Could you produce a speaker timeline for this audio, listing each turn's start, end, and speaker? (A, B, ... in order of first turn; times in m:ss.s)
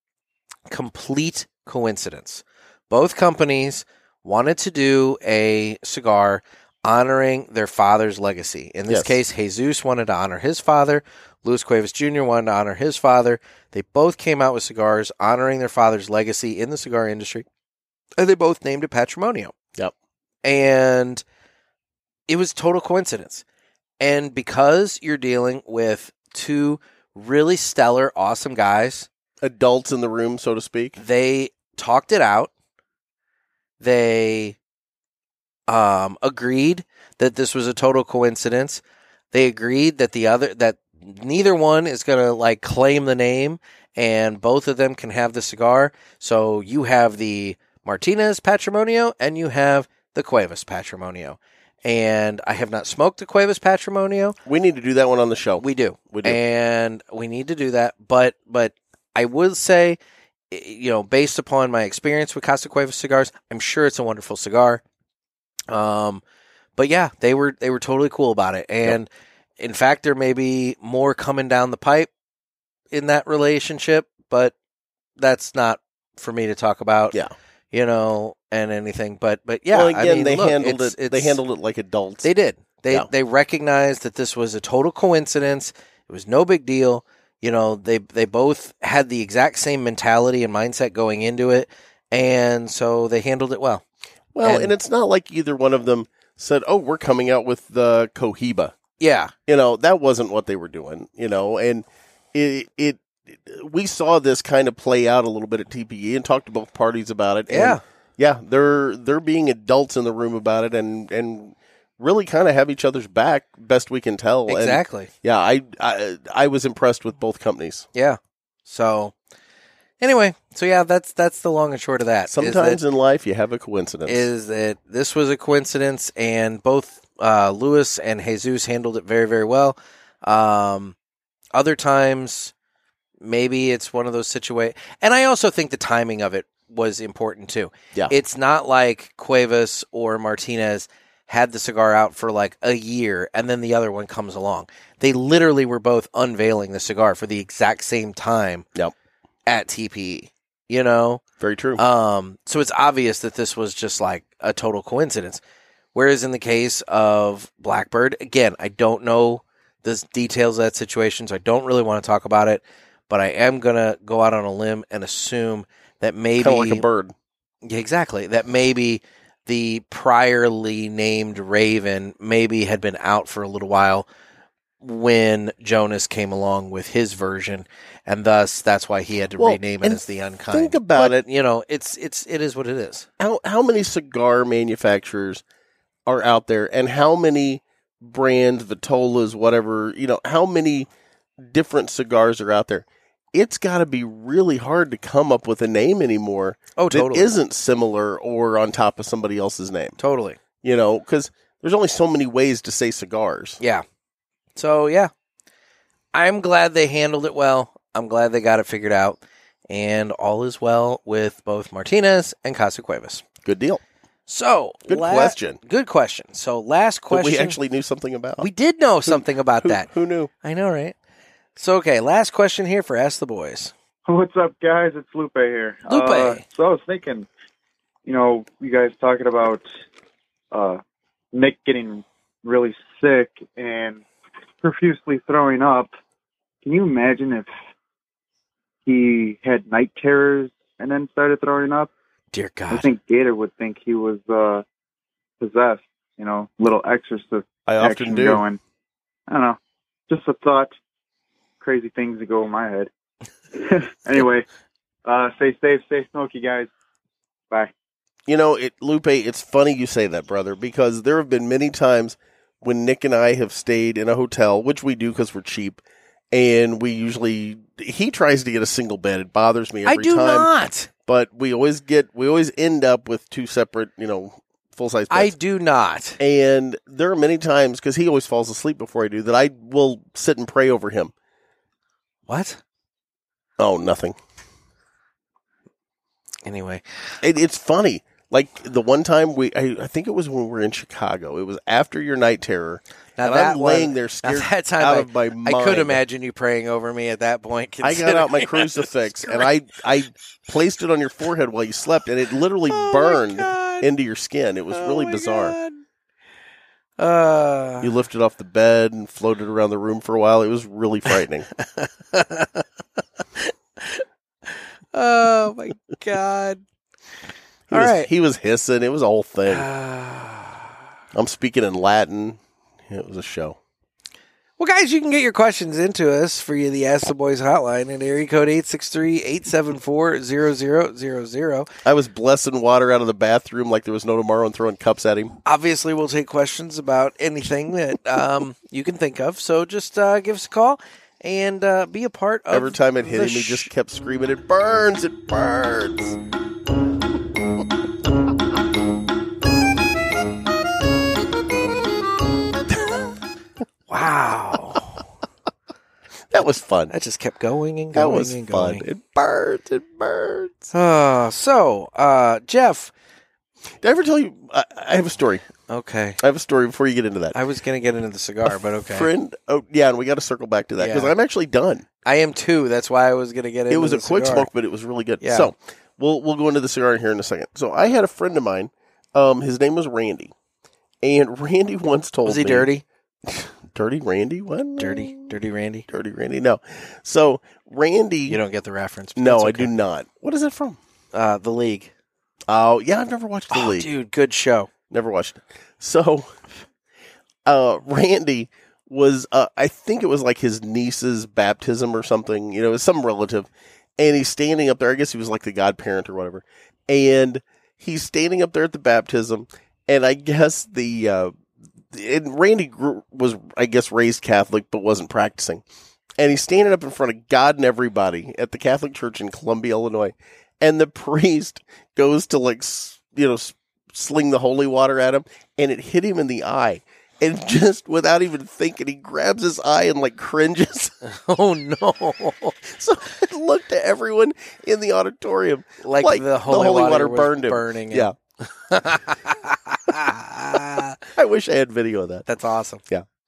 0:00.7-0:17.5 A
0:08.9-0:09.2 B
0:18.2-0:19.5 A
0:20.4-0:21.2 A
0:22.3-0:23.4 A
0:24.0-0:29.1 A
0:29.4-0:31.0 B
0:31.0-0:32.5 A
0:33.8-0:34.6 A
0:35.7-0:38.8 A
0:39.3-0:54.4 A
0:54.5-0:56.4 B
0:55.6-1:00.0 A
1:00.5-1:04.8 A
1:05.7-1:06.2 A
1:06.8-1:12.1 A
1:12.9-1:14.5 A
1:15.2-1:17.2 A
1:17.7-1:21.4 A
1:19.7-1:22.3 B
1:22.2-1:33.8 A
1:34.3-1:38.8 B
1:34.4-1:34.7 A
1:39.0-1:39.3 A
1:39.5-1:57.9 B
1:47.5-1:47.8 A
1:54.5-1:55.1 A
1:58.0-1:59.1 A
2:00.0-2:02.8 A
2:02.3-2:04.3 B
2:04.1-2:11.0 A
2:11.5-2:12.5 A
2:13.2-2:28.7 A
2:29.5-2:31.2 A
2:31.4-2:31.8 B
2:31.8-2:35.4 A
2:35.9-2:46.8 A
2:46.4-2:47.2 B
2:47.6-2:54.1 A
2:54.8-3:03.1 A
2:59.4-3:01.2 B
3:03.2-3:05.4 B
3:06.1-3:10.9 B
3:11.4-3:20.0 B
3:16.8-3:17.3 A
3:20.0-3:20.4 A
3:20.6-3:23.6 B
3:24.6-3:25.1 A
3:26.1-3:33.2 A
3:33.4-3:33.8 B
3:34.3-3:37.6 A
3:34.9-3:35.6 B
3:37.1-3:38.5 B
3:38.4-3:39.9 A
3:39.1-3:40.3 B
3:40.4-3:41.0 A
3:41.6-3:43.7 A
3:44.1-3:47.3 C
3:45.9-3:46.4 A
3:48.0-3:49.6 C
3:50.5-3:50.8 C
3:51.3-3:54.0 C
3:54.6-3:55.9 C
3:56.6-3:57.5 C
3:58.9-4:01.9 C
4:02.3-4:02.9 A
4:02.7-4:04.6 C
4:05.4-4:08.6 C
4:07.7-4:08.4 B
4:09.3-4:10.8 C
4:11.6-4:12.9 C
4:13.6-4:14.5 C
4:15.1-4:16.7 C
4:18.3-4:25.8 B
4:26.3-4:30.5 B
4:29.9-4:30.9 A
4:31.1-4:35.3 B
4:35.1-4:36.2 A
4:36.2-4:41.1 B
4:42.3-4:42.6 A
4:43.6-4:44.2 B
4:46.4-4:46.8 A
4:47.2-4:56.0 B
4:53.2-4:59.5 A
4:57.8-5:05.6 B
5:02.7-5:03.9 A
5:04.7-5:05.8 A
5:07.0-5:07.9 A
5:07.8-5:11.5 B
5:11.6-5:12.6 A
5:13.4-5:16.6 A
5:17.7-5:19.7 B
5:17.7-5:18.1 A
5:19.5-5:20.7 A
5:21.1-5:23.6 B
5:24.6-5:31.7 A
5:31.8-5:35.3 B
5:35.4-5:43.7 A
5:42.5-5:46.2 B
5:53.9-5:55.0 A
5:56.3-5:56.9 B
5:56.9-5:58.8 A
5:58.0-6:00.7 B
6:00.7-6:02.9 A
6:03.8-6:05.4 B
6:05.7-6:06.2 A
6:06.2-6:07.4 B
6:07.3-6:09.1 A
6:08.5-6:11.9 B
6:10.8-6:11.1 A
6:12.0-6:14.5 A
6:13.7-6:20.3 B
6:15.2-6:15.5 A
6:21.0-6:22.7 B
6:22.2-6:22.8 A
6:23.3-6:25.3 B
6:24.8-6:25.9 A
6:25.9-6:28.4 B
6:28.3-6:29.7 A
6:29.2-6:30.8 B
6:31.1-6:31.9 A
6:32.5-6:33.9 B
6:33.5-6:34.7 A
6:34.9-6:36.3 B
6:37.4-6:51.4 B
6:51.9-6:55.6 B
6:56.2-7:10.9 B
7:11.0-7:12.6 A
7:12.6-7:18.2 B
7:15.8-7:21.0 A
7:21.2-7:22.3 B
7:22.3-7:22.8 A